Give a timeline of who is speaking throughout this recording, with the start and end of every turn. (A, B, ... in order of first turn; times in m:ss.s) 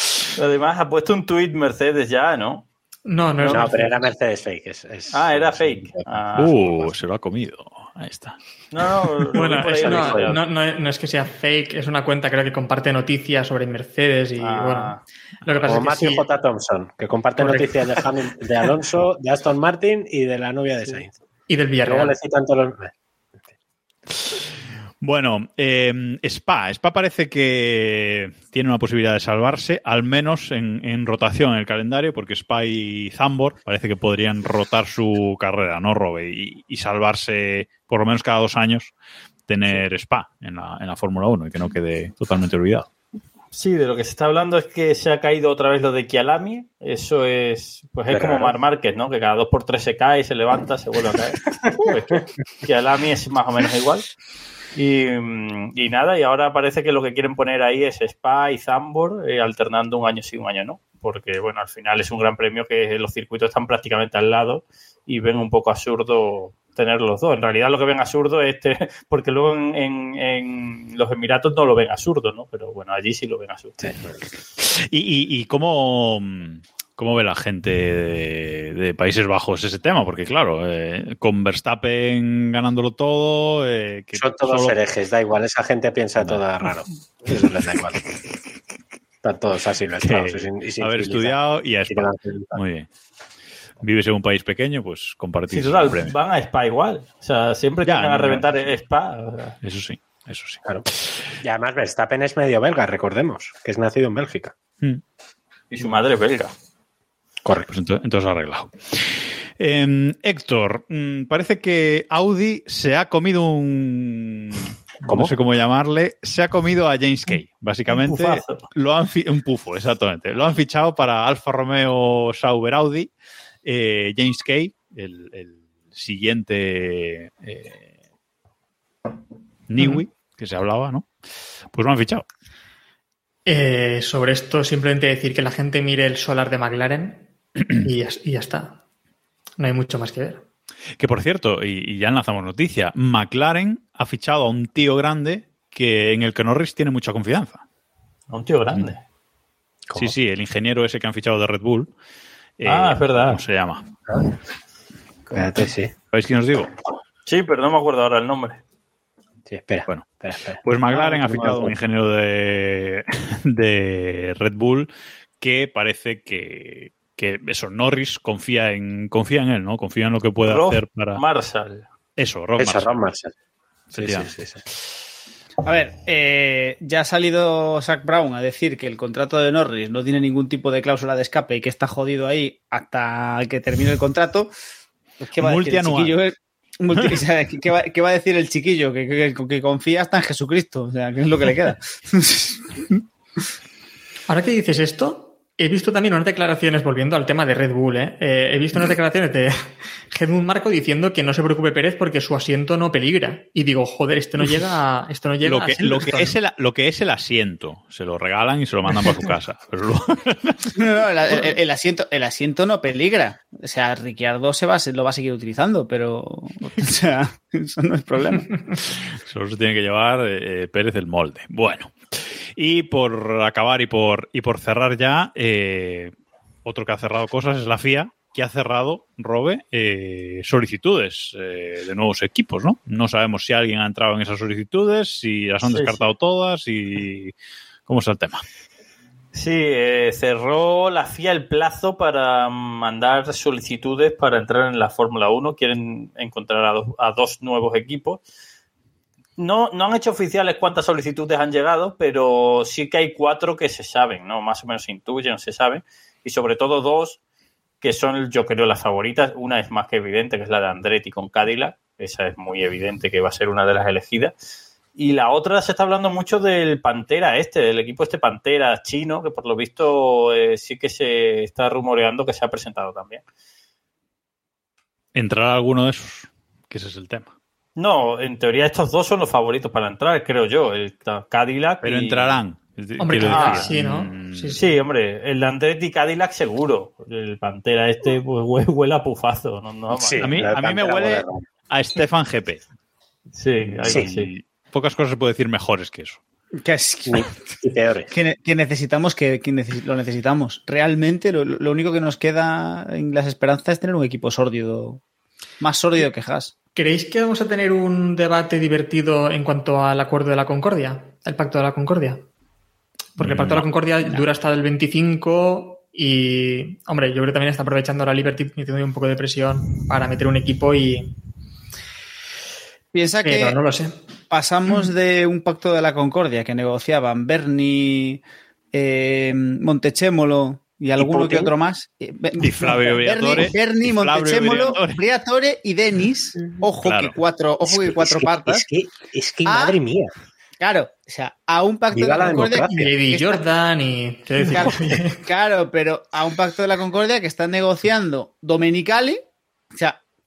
0:00.4-0:02.6 A
0:03.0-0:03.9 B
0:03.4-0:06.1 C
0:05.1-0:06.6 A
0:06.4-0:08.4 D
0:08.7-0:10.4 A
0:09.3-0:16.2 B
0:09.7-0:10.4 C
0:14.4-0:15.0 A
0:15.6-0:21.1 C
0:17.4-0:17.7 B
0:21.5-0:22.1 B
0:21.8-0:22.9 C
0:25.0-0:38.9 D
0:39.5-0:42.9 D
0:43.5-0:54.1 A
0:48.1-0:48.5 C
0:54.7-1:13.8 A
1:13.8-1:14.2 C
1:14.6-1:24.8 D
1:24.2-1:28.0 C
1:26.2-1:26.4 D
1:29.2-1:32.6 C
1:30.0-1:32.9 D
1:33.8-1:36.1 D
1:35.5-1:39.6 A
1:37.8-1:38.5 D
1:39.6-1:41.4 D
1:41.4-1:44.5 C
1:45.7-1:46.5 A
1:47.4-1:47.7 C
1:47.7-2:03.1 D
1:55.0-1:55.3 C
1:57.9-1:58.6 A
2:03.6-2:07.8 D
2:09.7-2:11.1 D
2:11.7-2:12.2 D
2:13.4-2:18.8 B
2:19.6-2:20.4 B
2:21.0-2:27.6 D
2:28.3-2:29.0 A
2:29.9-2:31.9 D
2:32.6-2:33.8 D
2:32.6-2:33.4 A
2:35.3-2:35.9 C
2:36.1-2:36.7 D
2:37.2-2:38.6 A
2:39.5-2:41.7 C
2:40.6-2:51.2 D
2:50.5-2:51.8 A
2:52.2-2:53.0 D
2:52.6-2:53.3 C
2:53.9-2:54.3 D
2:53.9-2:54.6 C
2:55.6-3:04.5 E
3:05.2-3:12.8 E
3:05.4-3:06.2 D
3:14.3-3:26.4 B
3:25.4-3:30.8 D
3:30.8-3:38.6 E
3:38.9-3:46.1 D
3:46.6-3:57.3 D
3:55.6-3:56.1 A
3:57.8-3:58.4 D
3:59.3-4:08.2 A
4:09.4-4:17.2 A
4:17.8-4:24.3 A
4:25.0-4:33.2 A
4:35.1-4:37.3 D
4:37.8-4:42.4 A
4:41.8-4:44.6 D
4:43.0-4:44.6 B
4:43.2-4:43.7 A
4:44.5-4:50.5 A
4:49.9-4:51.4 C
4:50.2-4:52.6 D
4:53.3-4:54.3 A
4:53.6-4:56.2 D
4:56.6-4:57.2 E
4:57.0-4:58.1 C
4:58.1-5:05.0 E
5:05.6-5:06.5 E
5:06.8-5:12.2 B
5:13.2-5:21.1 B
5:13.2-5:13.6 D
5:22.9-5:23.6 E
5:23.2-5:24.0 B
5:24.3-5:38.6 E
5:31.0-5:31.5 C
5:32.4-5:35.0 D
5:36.8-5:37.1 D
5:37.6-5:40.1 C
5:39.4-5:39.8 E
5:40.6-5:43.4 E
5:41.9-5:42.9 C
5:42.6-5:45.2 B
5:44.4-5:50.0 E